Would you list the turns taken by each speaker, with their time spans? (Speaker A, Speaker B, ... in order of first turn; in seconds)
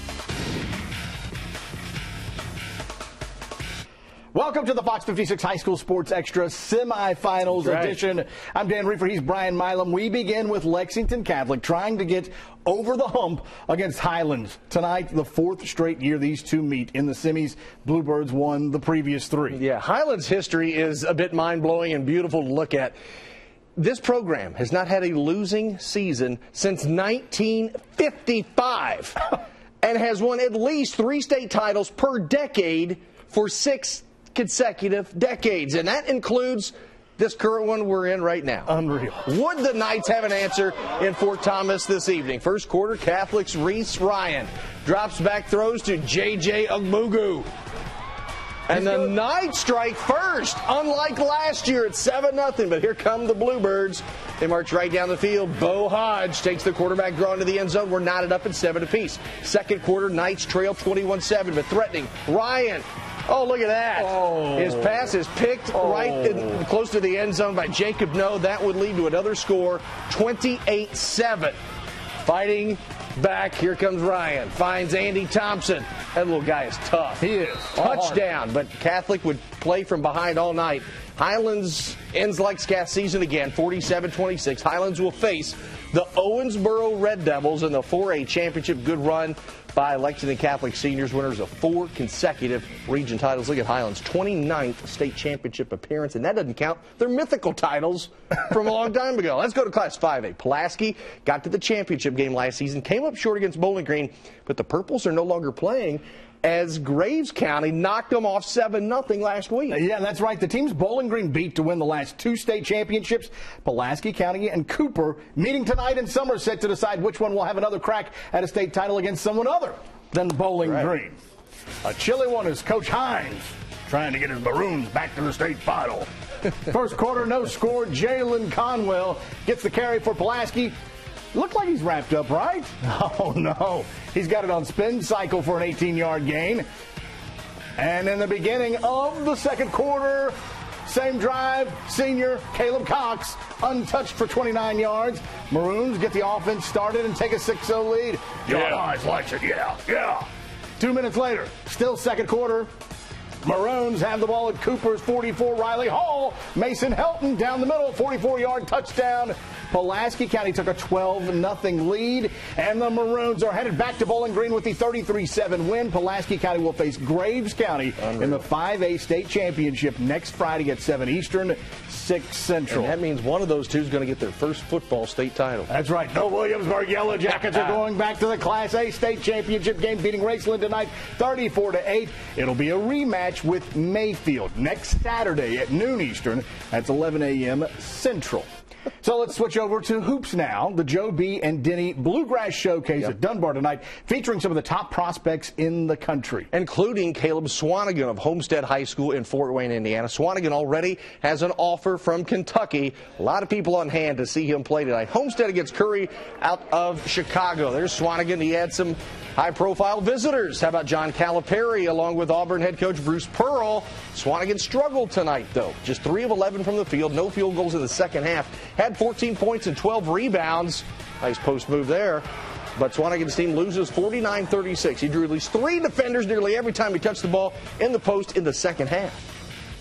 Speaker A: 4.3-19.6, 38.6-39.2, 48.7-49.1, 64.0-65.1, 65.7-66.4, 77.2-78.2, 109.7-121.2, 121.8-130.7, 131.3-136.6, 137.8-140.3, 140.8-150.3, 150.8-152.7, 153.4-172.9, 175.7-188.5, 189.0-196.5
Speaker B: 7.5-8.0, 19.5-22.9, 23.8-29.2, 29.8-38.7, 39.2-47.5, 48.7-71.5, 72.2-109.8, 168.0-168.4, 172.7-175.7, 196.5-229.2